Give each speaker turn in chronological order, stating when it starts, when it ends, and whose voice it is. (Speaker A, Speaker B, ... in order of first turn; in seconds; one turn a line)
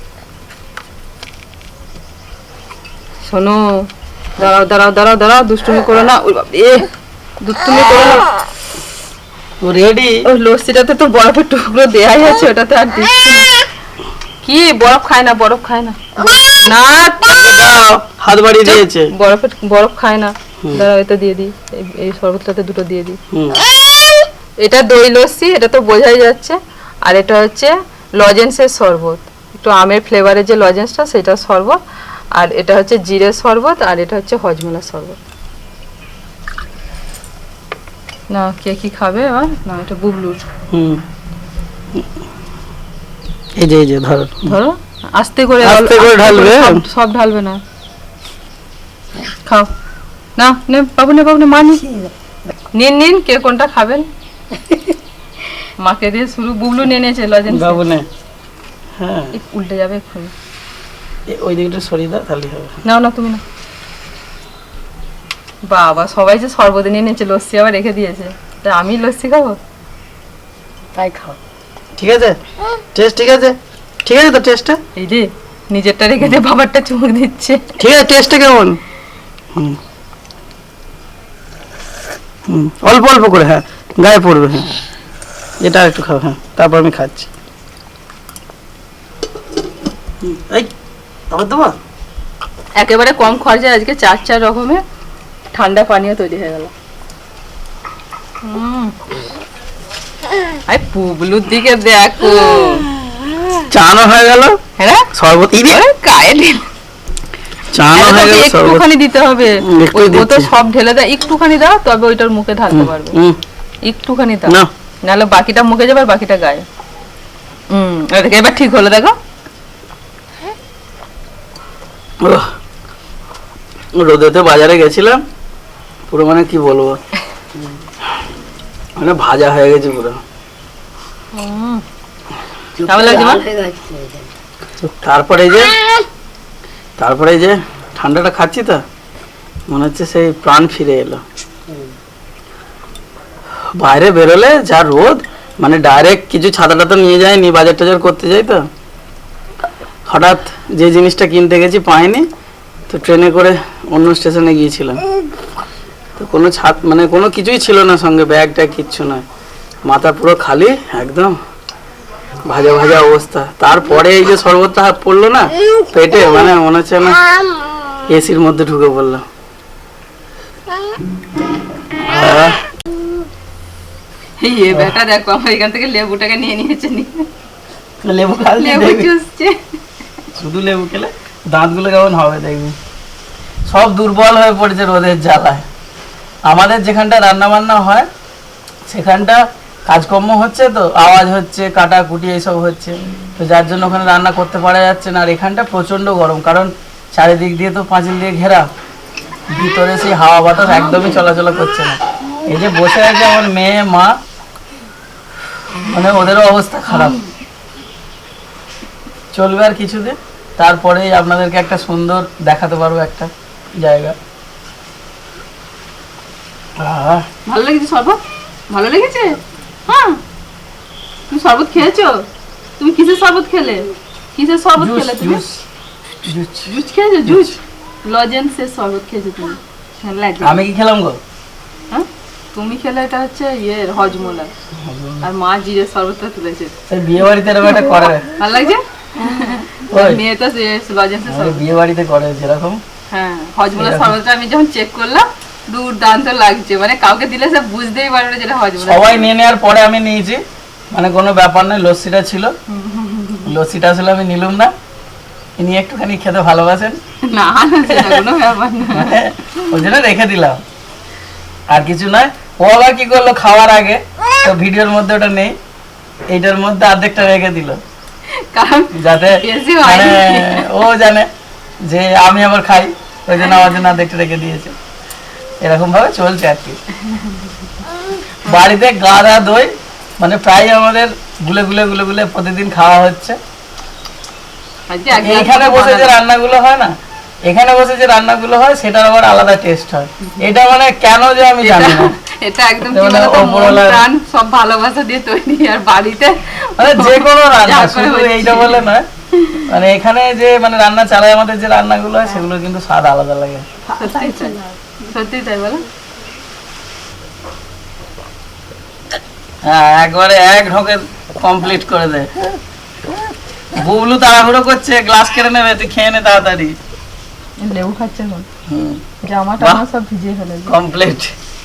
Speaker A: 3.2-6.9
Speaker A: 7.4-8.3
Speaker B: 9.6-10.2
Speaker A: 10.2-13.5
Speaker A: 14.4-17.4
Speaker B: 17.3-19.1
Speaker A: 18.6-23.2
Speaker B: 23.3-23.6
Speaker A: 24.6-31.8
Speaker A: 32.3-35.2
Speaker A: 38.3-40.4
Speaker B: 40.7-41.0
Speaker B: 43.6-44.5
Speaker A: 44.5-47.6
Speaker B: 45.6-46.8
Speaker A: 50.4-51.9
Speaker A: 52.7-54.1
Speaker A: 55.8-57.8
Speaker B: 57.5-58.0
Speaker B: 59.0-59.3
Speaker A: 59.3-60.3
Speaker B: 61.3-62.7
Speaker A: 62.8-63.4
Speaker A: 65.7-69.6
Speaker C: 70.9-71.4
Speaker B: 72.0-72.4
Speaker B: 72.9-74.8
Speaker A: 75.0-77.6
Speaker B: 77.8-78.8
Speaker B: 82.5-84.8
Speaker B: 85.6-87.3
Speaker B: 90.2-90.7
Speaker B: 91.3-91.8
Speaker A: 92.8-94.8
Speaker A: 95.5-96.7
Speaker A: 98.4-99.0
Speaker A: 100.7-102.9
Speaker B: 103.7-104.6
Speaker A: 104.8-105.1
Speaker B: 105.1-105.8
Speaker A: 105.7-106.6
Speaker B: 107.7-108.8
Speaker A: 107.9-113.2
Speaker B: 109.6-110.5
Speaker B: 112.7-113.4
Speaker A: 113.8-116.6
Speaker A: 117.7-119.1
Speaker B: 124.0-125.2
Speaker B: 126.1-127.0
Speaker B: 129.0-130.2
Speaker A: 131.3-131.8
Speaker C: 132.8-134.3
Speaker A: 132.9-133.4
Speaker B: 134.8-135.7
Speaker B: 137.0-138.8
Speaker B: 139.7-141.2
Speaker B: 143.7-148.7
Speaker B: 150.1-152.3
Speaker B: 152.9-155.0
Speaker B: 156.2-159.2
Speaker B: 159.8-161.3
Speaker B: 162.4-167.2
Speaker B: 168.1-169.2
Speaker B: 172.0-172.6
Speaker A: 174.4-177.3
Speaker B: 178.0-179.1
Speaker A: 178.6-179.6
Speaker B: 180.3-182.7
Speaker B: 183.7-185.7
Speaker B: 186.5-188.1
Speaker B: 188.9-198.7
Speaker B: 199.5-204.1
Speaker A: 200.6-201.2
Speaker B: 205.9-207.2
Speaker B: 209.3-214.2
Speaker B: 216.8-217.2
Speaker A: 217.4-220.2
Speaker A: 221.3-222.2
Speaker A: 222.8-225.4
Speaker B: 224.8-225.6
Speaker B: 226.2-226.7
Speaker A: 226.7-230.6
Speaker B: 227.3-227.5
Speaker B: 230.4-231.2
Speaker A: 231.9-234.5
Speaker B: 234.8-235.2
Speaker A: 235.2-236.7
Speaker B: 236.9-238.3
Speaker A: 237.7-241.6
Speaker B: 239.9-240.2
Speaker B: 241.3-242.8
Speaker A: 243.1-249.2
Speaker B: 243.8-244.1
Speaker B: 248.8-252.5
Speaker A: 252.7-253.5
Speaker B: 253.4-254.7
Speaker B: 255.6-257.0
Speaker A: 257.3-259.7
Speaker B: 257.9-258.2
Speaker B: 258.9-260.6
Speaker B: 261.7-265.5
Speaker B: 266.3-267.8
Speaker A: 268.5-270.7
Speaker B: 268.9-271.3
Speaker B: 271.9-274.7
Speaker B: 275.6-276.8
Speaker A: 277.0-277.6
Speaker B: 278.4-283.4
Speaker A: 284.9-286.1
Speaker B: 285.1-286.9
Speaker B: 287.5-292.1
Speaker A: 291.6-299.7
Speaker B: 292.9-294.0
Speaker B: 296.8-299.1
Speaker B: 299.6-303.6
Speaker C: 303.9-304.8
Speaker A: 304.0-305.8
Speaker B: 309.6-312.3
Speaker B: 313.7-316.8
Speaker A: 317.6-318.5
Speaker B: 318.7-319.0
Speaker A: 319.2-320.8
Speaker B: 320.7-321.3